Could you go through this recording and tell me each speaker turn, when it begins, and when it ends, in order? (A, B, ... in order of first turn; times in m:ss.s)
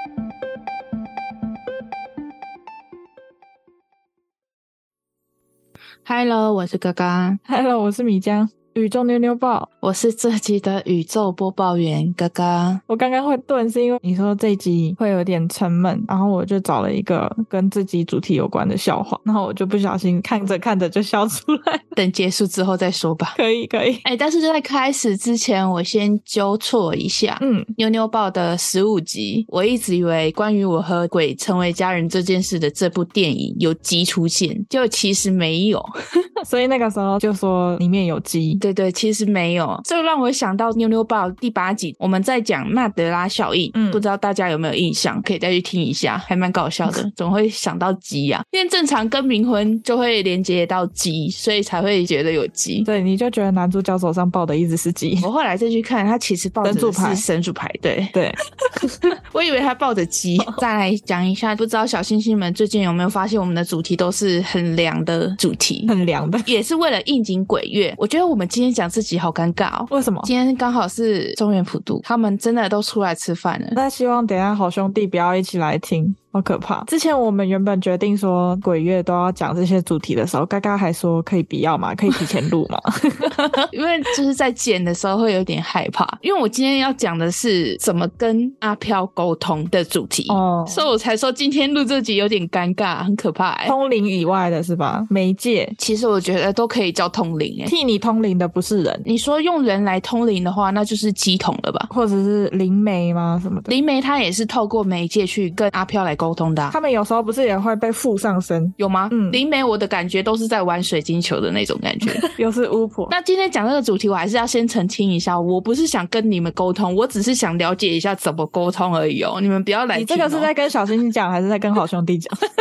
0:06.0-0:07.4 A
0:07.4-0:09.7 B
0:09.8-0:12.8 A
0:12.9-0:21.9 B
0:22.0-0:23.4 A
0:23.4-0:24.0 B
0:24.0-0:35.9 A
0:27.4-0:27.7 B
0:36.4-0:38.6 B
0:38.6-0:52.9 A
0:43.7-0:44.0 B
0:52.8-0:55.3 B
0:55.2-0:58.2 A
0:56.6-0:57.2 B
0:58.1-0:58.9 B
0:58.7-1:05.9 A
1:05.9-1:06.5 B
1:06.4-1:13.8 A
1:09.9-1:10.3 B
1:13.7-1:23.4 B
1:23.2-1:33.7 A
1:30.3-1:30.9 B
1:33.6-1:35.7 B
1:35.8-1:37.7 A
1:37.6-1:39.0 B
1:39.0-1:41.9 A
1:41.9-1:43.7 B
1:43.7-1:46.8 A
1:46.7-1:49.4 B
1:48.8-1:52.3 A
1:52.2-1:53.1 B
1:53.1-2:00.5 A
1:59.9-2:02.4 B